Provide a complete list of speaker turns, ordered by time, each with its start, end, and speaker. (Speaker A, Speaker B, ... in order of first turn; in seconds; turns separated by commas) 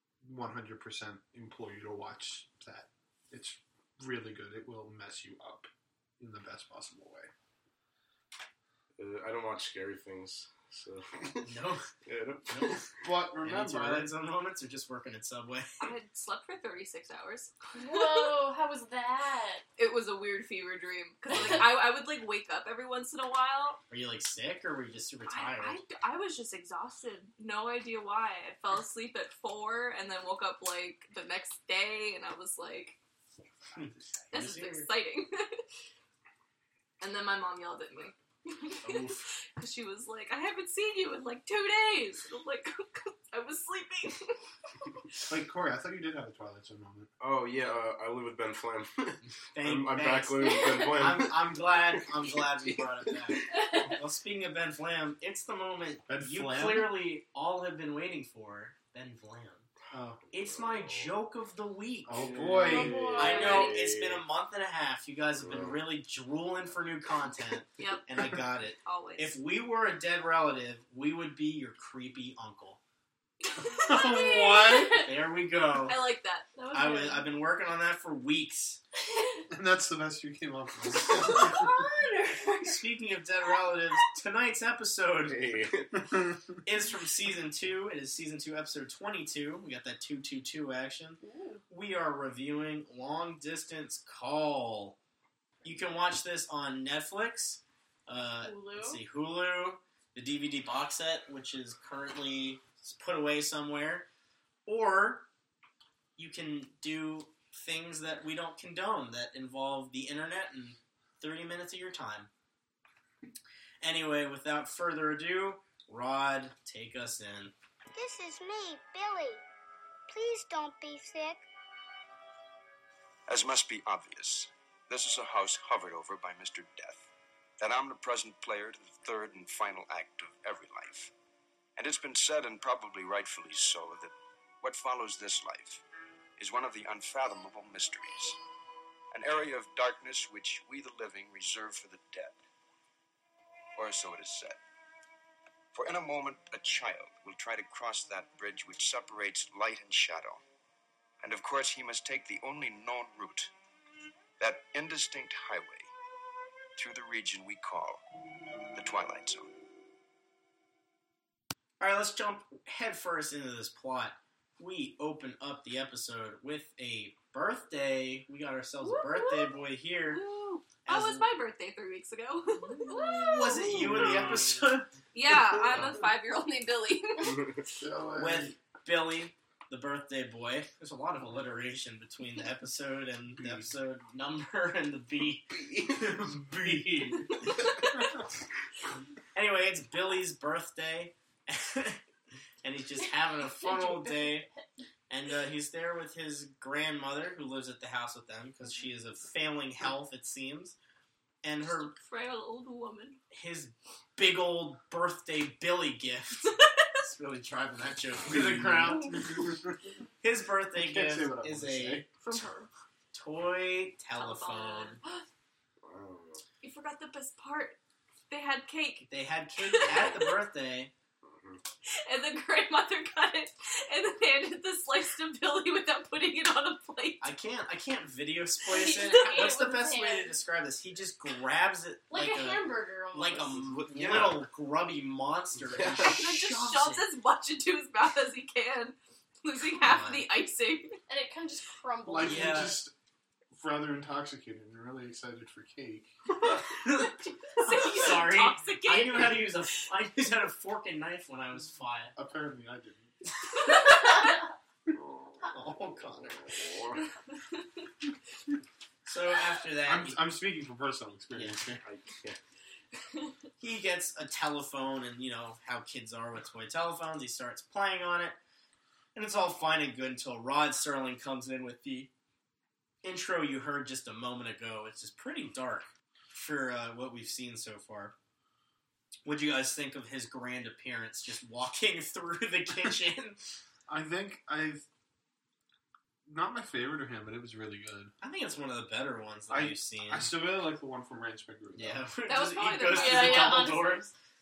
Speaker A: 0.2-7.3, Speaker B: 9.0-11.5, Speaker C: 11.4-11.8, Speaker B: 12.1-12.9, Speaker C: 12.5-12.8, Speaker A: 13.0-14.1, Speaker C: 13.4-15.9, Speaker D: 15.8-18.4, Speaker E: 17.7-19.6, Speaker D: 19.8-23.8, Speaker C: 23.9-25.8, Speaker D: 25.3-33.0, Speaker C: 33.8-34.9, Speaker D: 34.3-35.6, Speaker D: 37.0-39.0, Speaker B: 38.8-39.3, Speaker D: 39.5-44.4, Speaker A: 45.3-47.1, Speaker B: 47.2-53.4, Speaker C: 49.5-59.7, Speaker E: 50.4-50.9, Speaker E: 53.5-53.8, Speaker A: 56.1-57.0, Speaker A: 59.9-60.2, Speaker B: 60.3-61.2, Speaker C: 60.3-62.4, Speaker A: 62.1-63.2, Speaker B: 62.1-64.2, Speaker E: 62.6-63.8, Speaker C: 63.2-72.8, Speaker B: 65.3-65.8, Speaker D: 67.8-68.1, Speaker D: 68.8-69.4, Speaker D: 73.4-74.0, Speaker A: 73.6-75.1, Speaker E: 73.9-75.1, Speaker C: 75.0-76.0, Speaker D: 75.9-76.5, Speaker E: 76.5-77.3, Speaker C: 76.7-78.8, Speaker A: 79.5-81.8, Speaker E: 81.1-82.8, Speaker C: 82.6-85.6, Speaker B: 85.2-86.0, Speaker C: 86.6-95.0, Speaker E: 91.2-91.6, Speaker C: 95.6-104.1, Speaker E: 98.4-99.0, Speaker C: 104.7-105.3, Speaker C: 106.2-112.3, Speaker C: 113.8-117.5, Speaker F: 117.9-119.4, Speaker F: 120.1-121.4, Speaker G: 123.3-131.1, Speaker G: 131.8-135.8, Speaker G: 136.4-138.4, Speaker G: 139.1-142.4, Speaker G: 143.8-144.6, Speaker G: 145.7-150.4, Speaker G: 151.2-153.5, Speaker G: 154.4-155.9, Speaker G: 156.8-158.0, Speaker G: 158.8-159.5, Speaker C: 161.8-170.2, Speaker D: 168.8-173.7, Speaker C: 170.8-171.2, Speaker C: 172.8-174.9, Speaker B: 173.7-174.6, Speaker D: 175.1-177.5, Speaker B: 177.2-177.6, Speaker A: 177.8-178.5, Speaker C: 178.2-187.6, Speaker B: 183.4-183.7, Speaker B: 185.5-186.6, Speaker C: 189.3-192.0, Speaker C: 192.6-194.5, Speaker E: 193.5-194.7, Speaker C: 195.1-200.8, Speaker C: 201.4-201.9, Speaker D: 201.9-203.2, Speaker C: 203.3-209.4, Speaker A: 208.2-209.5, Speaker C: 210.2-212.1, Speaker A: 210.8-212.1, Speaker D: 212.2-212.7, Speaker C: 213.1-215.0, Speaker D: 214.1-215.2, Speaker B: 215.8-216.4, Speaker D: 216.6-217.8, Speaker D: 218.3-219.1, Speaker C: 219.1-220.9, Speaker D: 219.6-220.3, Speaker B: 219.8-220.2, Speaker B: 221.2-221.6, Speaker D: 222.0-227.3, Speaker C: 227.2-237.1, Speaker E: 228.7-230.4, Speaker E: 232.1-233.6, Speaker B: 233.5-234.5, Speaker B: 235.6-236.2, Speaker D: 236.0-241.0, Speaker C: 239.7-240.2, Speaker E: 241.1-242.8, Speaker A: 242.1-242.9, Speaker C: 242.2-242.8, Speaker A: 243.5-246.1, Speaker C: 246.4-252.1, Speaker D: 247.5-249.5, Speaker A: 252.1-253.1, Speaker C: 253.7-254.2, Speaker B: 255.0-255.5, Speaker C: 255.5-256.6, Speaker B: 256.1-257.0, Speaker C: 259.1-260.2, Speaker A: 259.9-261.8, Speaker B: 261.8-262.4, Speaker C: 263.6-268.4, Speaker C: 269.1-272.1, Speaker C: 273.0-278.1, Speaker C: 279.2-283.4, Speaker A: 283.9-284.9, Speaker A: 286.2-288.1, Speaker C: 288.2-290.3, Speaker A: 289.5-292.0, Speaker C: 291.8-294.0, Speaker D: 292.3-293.7, Speaker E: 292.9-294.1